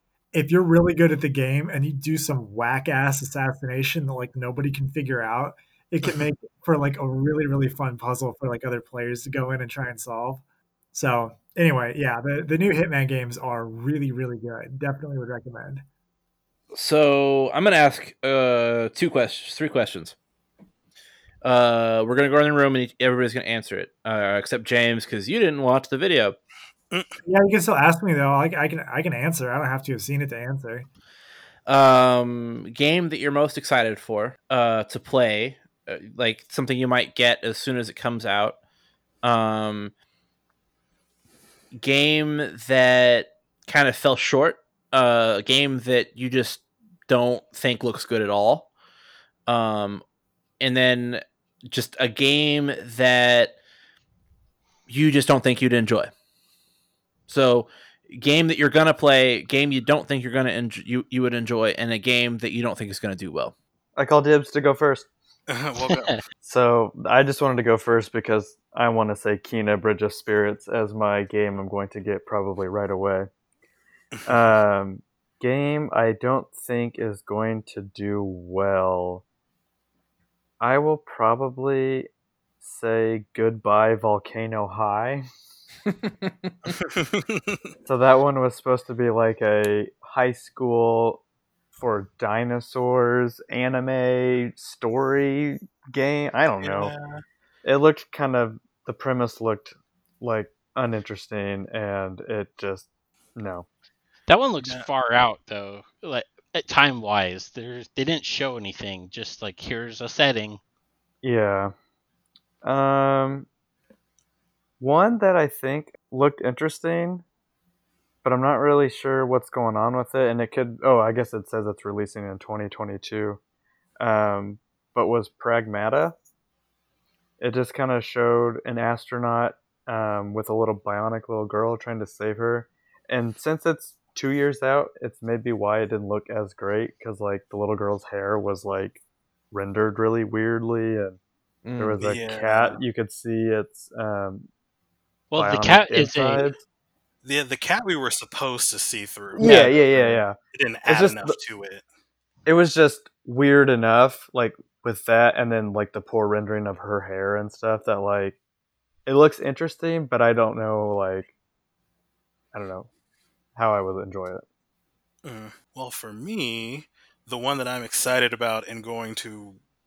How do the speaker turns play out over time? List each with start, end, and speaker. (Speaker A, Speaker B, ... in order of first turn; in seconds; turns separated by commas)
Speaker A: 0.3-10.4, Speaker A: 10.9-15.8, Speaker B: 16.7-20.1, Speaker B: 21.4-26.4, Speaker A: 27.2-30.9, Speaker B: 31.7-38.6, Speaker B: 39.2-39.9, Speaker B: 41.7-48.7, Speaker B: 49.5-50.0, Speaker B: 50.6-53.6, Speaker B: 54.9-56.1, Speaker B: 57.3-63.5, Speaker C: 64.0-65.1, Speaker D: 65.5-66.2, Speaker E: 65.8-66.2, Speaker C: 66.4-73.3, Speaker C: 74.3-79.2, Speaker C: 80.6-82.1, Speaker C: 82.6-85.3, Speaker B: 85.9-86.7, Speaker D: 86.7-87.6, Speaker C: 87.8-91.2, Speaker C: 91.8-96.9, Speaker D: 96.6-97.2, Speaker C: 97.6-103.7, Speaker E: 104.3-110.6, Speaker D: 104.6-104.9, Speaker C: 111.2-111.7, Speaker C: 112.6-113.5, Speaker C: 114.8-117.2, Speaker C: 118.2-123.4, Speaker C: 124.0-126.2, Speaker C: 127.4-139.0, Speaker C: 139.5-141.2, Speaker B: 141.7-142.0, Speaker C: 141.8-144.5, Speaker D: 142.0-142.8, Speaker E: 145.3-146.5, Speaker C: 145.3-146.6, Speaker D: 147.2-151.8, Speaker C: 149.4-151.4, Speaker E: 149.4-149.7, Speaker C: 152.5-158.4, Speaker C: 159.1-161.3, Speaker C: 162.5-162.9, Speaker C: 163.6-164.4, Speaker D: 165.2-169.6